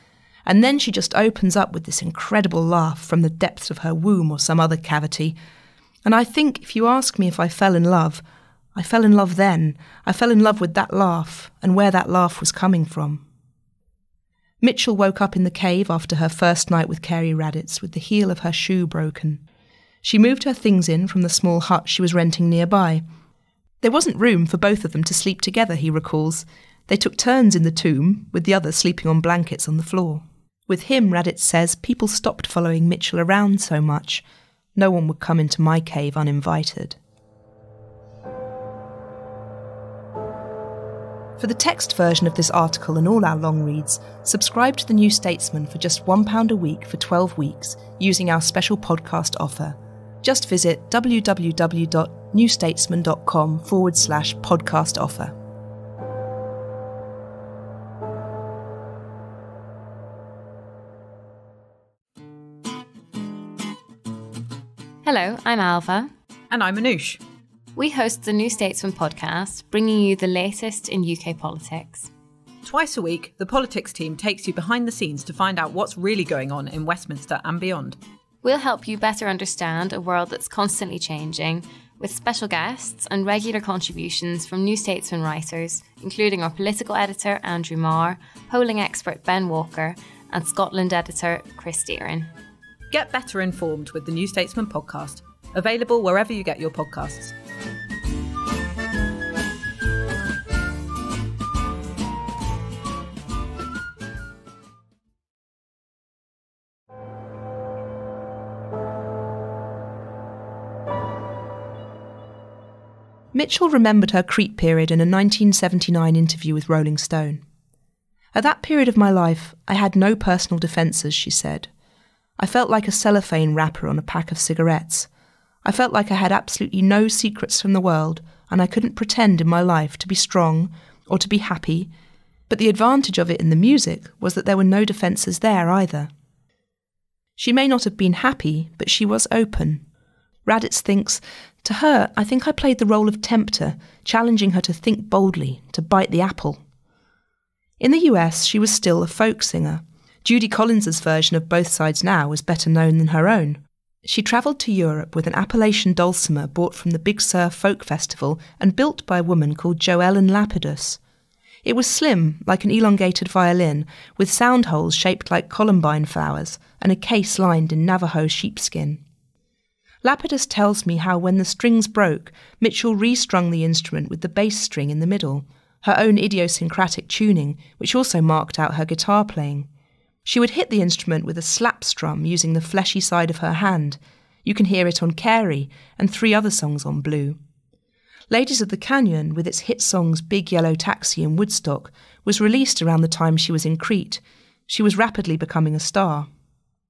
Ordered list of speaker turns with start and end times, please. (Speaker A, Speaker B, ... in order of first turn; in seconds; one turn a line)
Speaker A: 0.5-5.4
Speaker A: 6.0-8.2
Speaker A: 8.8-13.2
Speaker A: 14.6-19.4
Speaker A: 20.0-23.0
Speaker A: 23.8-34.2
Speaker A: 34.8-37.0
Speaker A: 41.4-55.4
Speaker B: 65.0-66.1
Speaker C: 66.5-67.2
Speaker B: 67.8-72.1
Speaker C: 72.6-78.0
Speaker B: 78.4-92.3
Speaker C: 92.9-97.3
Speaker A: 113.3-117.4
Speaker A: 118.3-121.7
Speaker A: 122.4-125.1
Speaker A: 125.6-131.9
Speaker A: 132.5-136.1
Speaker A: 137.4-139.8
Speaker A: 140.5-146.6
Speaker A: 147.8-161.0
Speaker A: 161.6-169.0
Speaker A: 170.0-179.7
Speaker A: 180.2-187.4
Speaker A: 188.3-196.3